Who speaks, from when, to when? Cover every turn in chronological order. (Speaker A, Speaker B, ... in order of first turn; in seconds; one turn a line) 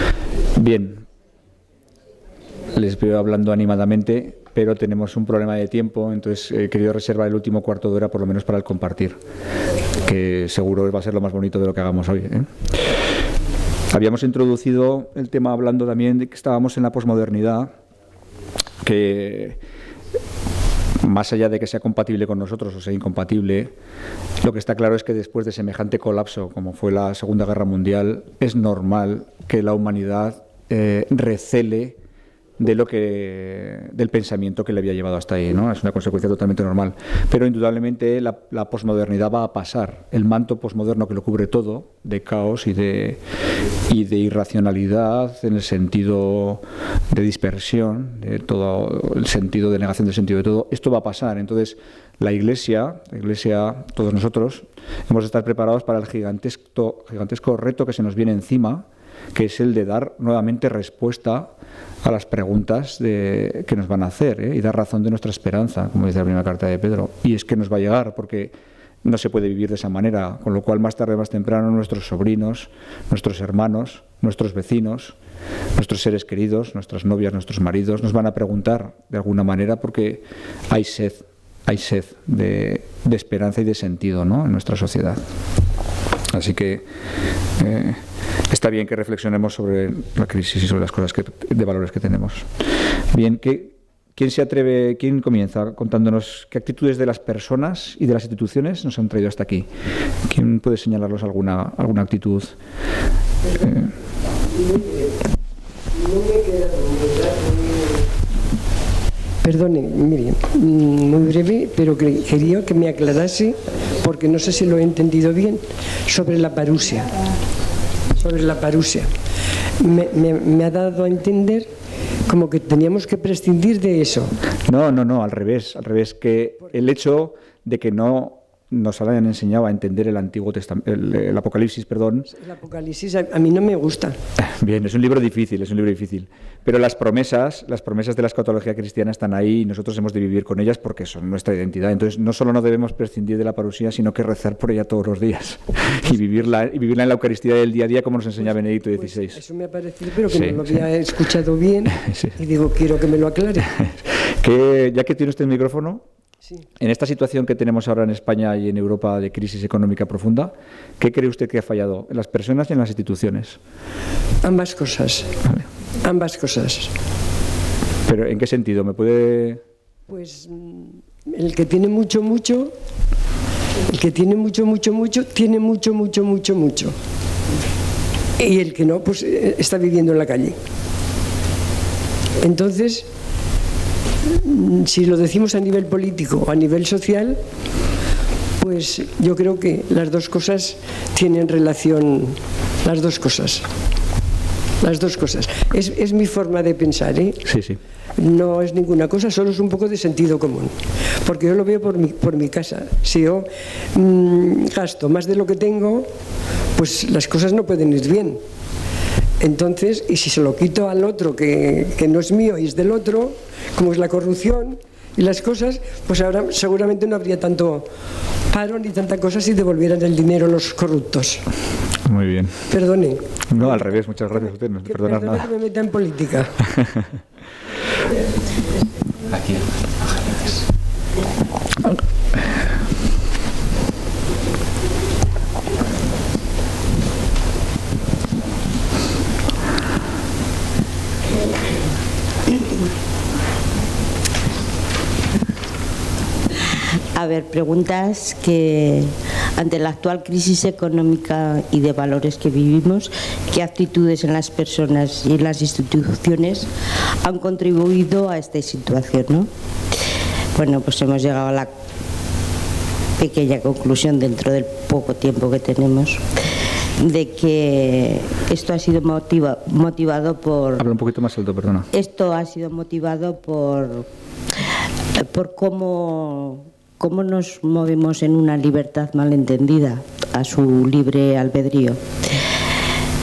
Speaker A: 0.6-1.1
Speaker A: 2.7-9.2
Speaker A: 10.0-12.5
Speaker A: 13.9-17.7
Speaker A: 18.8-19.6
Speaker A: 21.0-23.7
Speaker A: 24.4-32.0
Speaker A: 32.6-43.2
Speaker A: 43.8-75.2
Speaker A: 75.8-85.2
Speaker A: 86.3-86.8
Speaker A: 87.6-92.5
Speaker A: 93.1-99.7
Speaker A: 100.2-102.5
Speaker A: 103.6-103.9
Speaker B: 106.0-107.9
Speaker B: 109.4-117.1
Speaker B: 118.2-119.1
Speaker B: 119.8-121.7
Speaker B: 122.2-124.3
Speaker A: 124.7-132.3
Speaker B: 132.3-134.2
Speaker A: 134.4-149.4
Speaker B: 148.4-153.7
Speaker A: 150.3-150.9
Speaker A: 151.9-152.4
Speaker A: 153.8-156.0
Speaker A: 156.8-163.6
Speaker B: 164.4-165.3
Speaker B: 166.0-166.9
Speaker A: 168.1-169.6
Speaker B: 170.1-172.7
Speaker B: 173.9-177.0
Speaker B: 178.4-180.6
Speaker B: 182.4-183.1
Speaker B: 184.3-187.4
Speaker B: 188.6-193.7
Speaker B: 194.8-197.4
Speaker A: 197.4-197.8
Speaker B: 198.2-206.1
Speaker B: 206.8-208.4
Speaker B: 209.4-217.9
Speaker B: 218.5-221.4
Speaker A: 222.0-222.6
Speaker B: 222.7-226.6
Speaker A: 223.5-225.5
Speaker A: 226.8-227.0
Speaker C: 247.1-256.7
Speaker C: 257.2-259.5
Speaker C: 260.5-261.7
Speaker C: 263.2-266.2
Speaker C: 267.0-270.8
Speaker A: 270.8-271.9
Speaker C: 271.9-274.1
Speaker C: 275.2-282.0